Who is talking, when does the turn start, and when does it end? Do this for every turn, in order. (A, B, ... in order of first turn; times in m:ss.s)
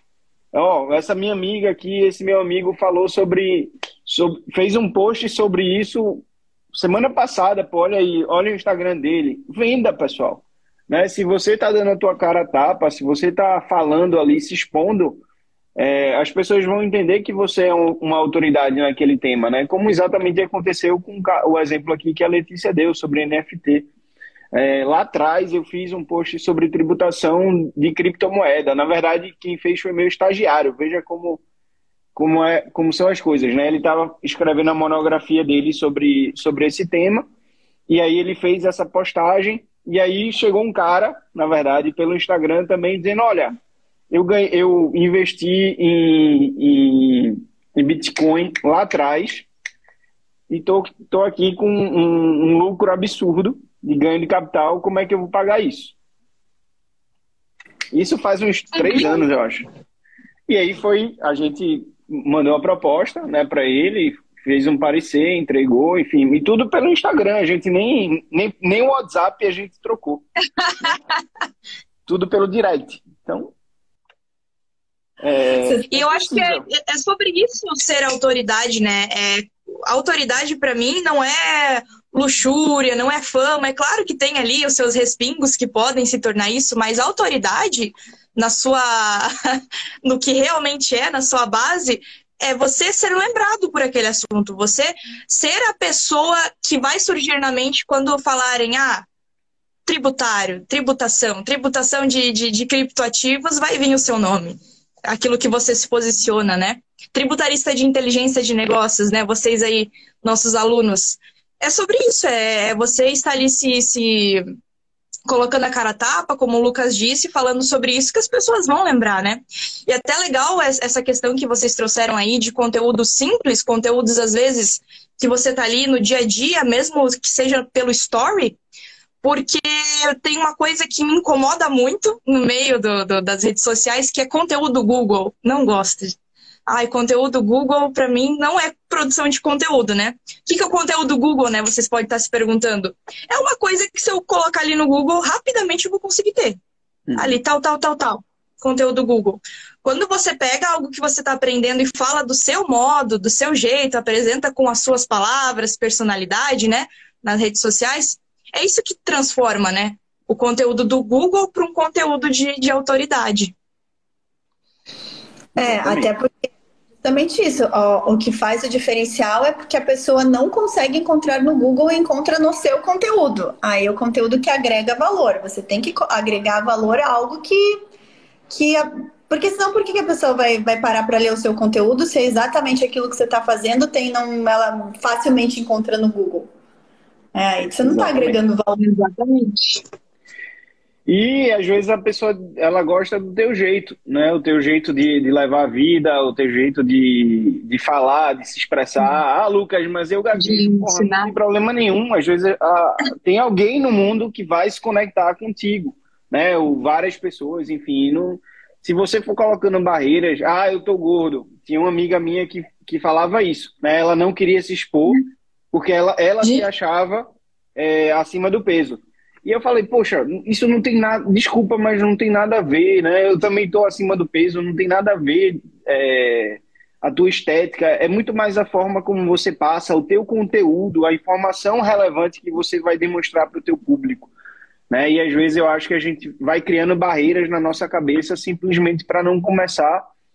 0:00.5-0:15.2 A
0:15.8-0:23.9 A
0:24.5-0:31.4 A
0:32.2-0:37.2 A
0:37.9-0:43.5 A
0:44.1-0:49.5 A
0:50.5-0:55.9 A
0:57.9-0:59.6 A
0:58.8-0:59.3 B
1:00.5-1:10.2 A
1:10.6-1:11.0 B
1:12.0-1:13.5 A
1:15.2-1:16.6 A
1:15.9-1:39.0 B
1:39.8-1:54.4 B
1:55.2-2:08.6 B
2:09.2-2:16.1 B
2:16.7-2:26.6 B
2:27.1-2:27.4 A
2:27.2-2:43.5 B
2:45.5-2:46.1 A
2:45.6-2:46.5 C
2:47.0-2:57.8 C
2:58.5-3:06.5 C
3:07.3-3:08.8 C
3:07.8-3:08.4 A
3:08.8-3:09.8 B
3:11.1-3:35.2 A
3:20.4-3:21.3 B
3:35.7-3:54.3 A
3:54.9-4:00.1 A